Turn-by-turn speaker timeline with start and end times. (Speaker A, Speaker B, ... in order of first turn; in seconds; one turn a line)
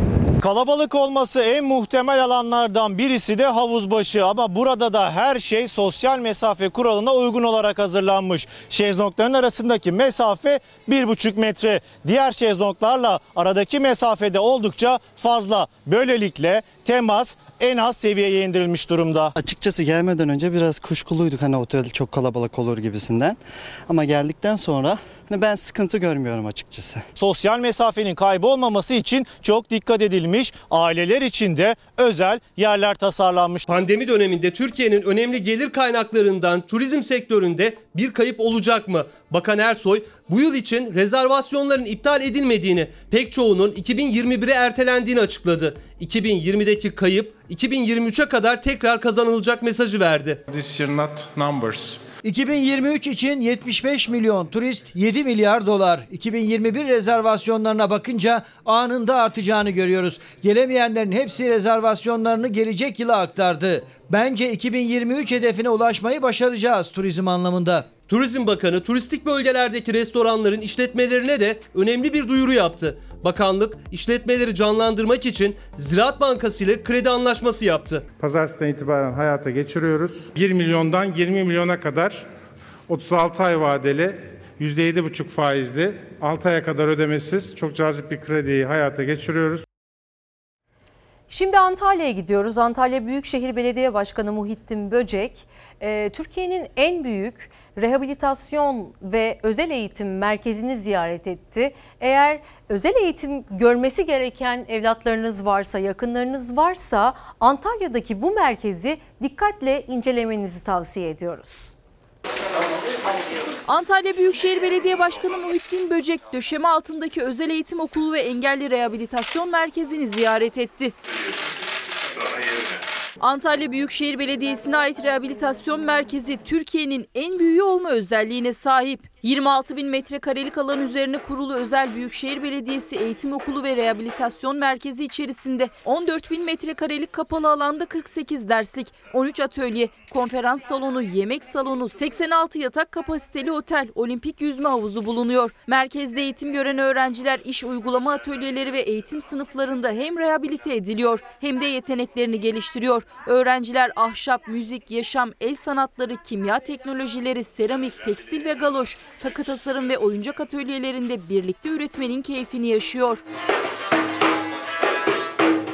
Speaker A: 0.4-19.3
Speaker B: 19.4-27.0
Speaker A: 27.1-33.6
Speaker C: 33.7-50.4
Speaker D: 50.5-52.0
Speaker E: 52.2-68.0
Speaker C: 68.0-78.0
Speaker D: 78.1-82.3
Speaker D: 82.9-89.6
Speaker F: 91.3-111.7
Speaker G: 113.7-120.9
Speaker G: 123.2-163.2